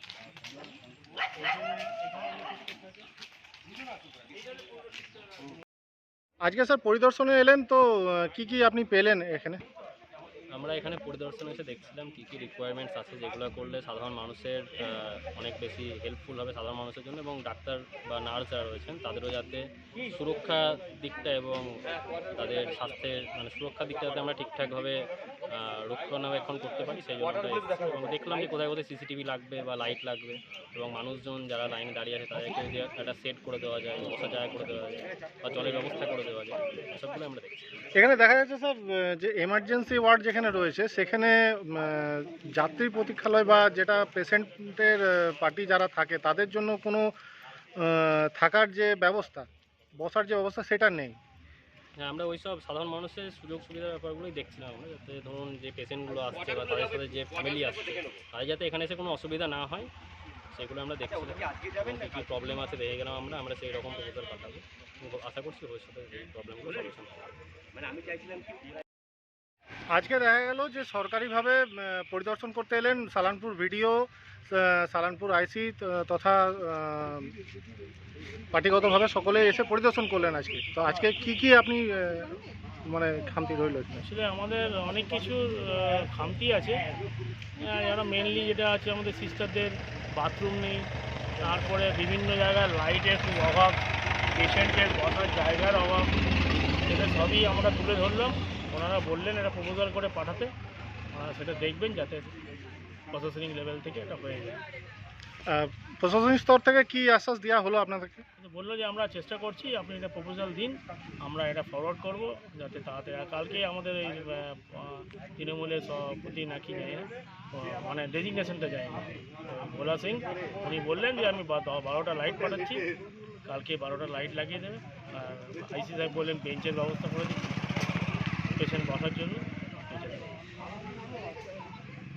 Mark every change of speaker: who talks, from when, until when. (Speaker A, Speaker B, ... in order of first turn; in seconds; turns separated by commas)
Speaker A: 1.4-3.0, Speaker A: 4.3-5.3, Speaker B: 6.4-9.6, Speaker C: 10.5-37.7, Speaker B: 37.9-47.1, Speaker B: 47.8-51.1, Speaker C: 52.0-59.9, Speaker C: 60.5-67.3, Speaker B: 69.9-77.3, Speaker B: 78.5-82.3, Speaker A: 80.8-81.1, Speaker B: 82.8-84.0, Speaker A: 84.0-86.8, Speaker A: 87.6-90.9, Speaker A: 91.4-93.8, Speaker A: 94.3-96.1, Speaker A: 96.8-100.5, Speaker A: 101.1-102.3, Speaker A: 103.1-104.6, Speaker B: 105.5-108.2, Speaker A: 108.4-122.8, Speaker A: 123.5-127.7, Speaker A: 128.6-130.3